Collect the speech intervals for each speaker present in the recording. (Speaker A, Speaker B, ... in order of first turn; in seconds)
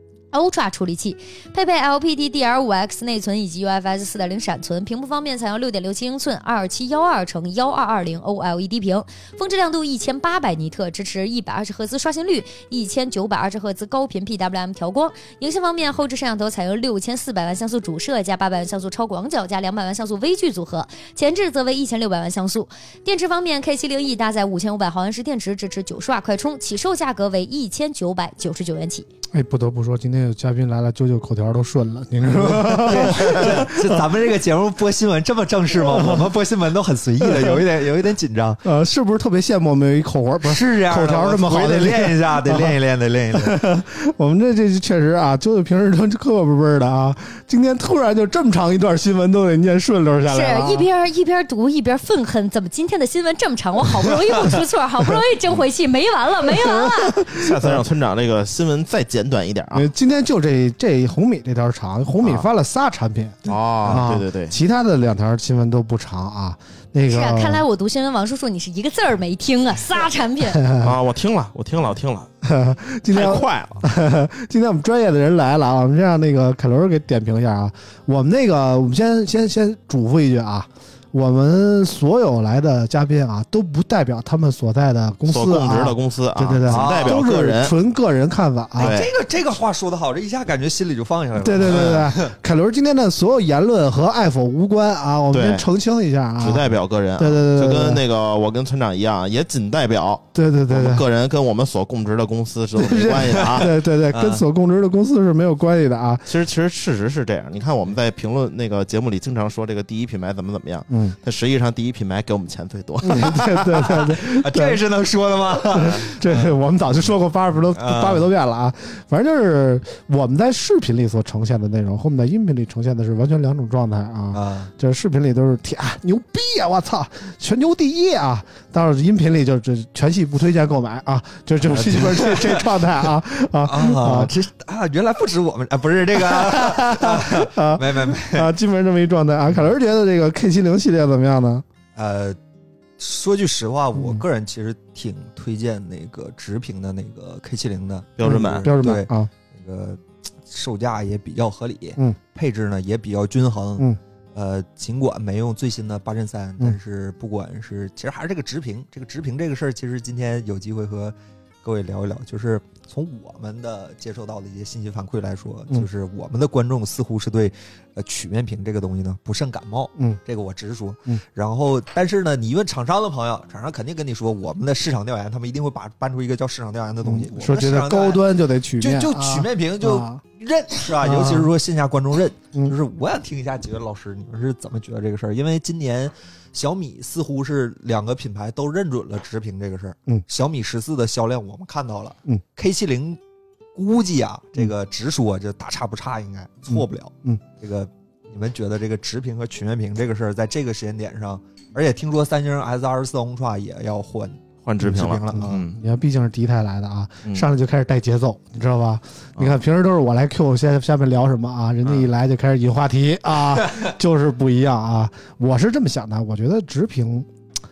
Speaker A: 0.3-29.1, 50.3-57.2, 67.1-70.6
Speaker B: 29.3-34.1, 35.8-36.3, 37.2-37.6, 38.6-42.8, 43.3-50.9, 56.5-57.8, 59.7-67.6, 70.6-70.9, 72.4-89.0, 91.3-98.0, 100.3-101.0, 102.8-106.3, 110.9-111.2, 113.0-114.8, 115.6-134.3, 136.1-141.6, 143.9-144.2, 148.2-149.3, 169.9-170.2, 177.0-180.2, 180.9-181.5, 196.7-197.4, 204.9-217.3
Speaker C: 32.3-38.6, 40.4-43.5, 86.7-87.2, 88.8-92.3, 103.3-104.4, 114.0-116.5, 117.7-118.2, 124.3-124.7, 131.6-132.7, 133.6-138.5, 141.9-142.4, 143.0-178.2, 178.8-193.2, 193.7-205.6
Speaker D: 57.3-59.9, 62.2-62.5, 63.4-64.5, 70.8-72.3, 73.1-73.8, 85.3-87.8, 88.8-89.1, 91.6-92.0, 95.3-95.6, 96.4-103.7, 106.3-114.0, 148.2-148.7, 204.6-205.8, 211.8-212.1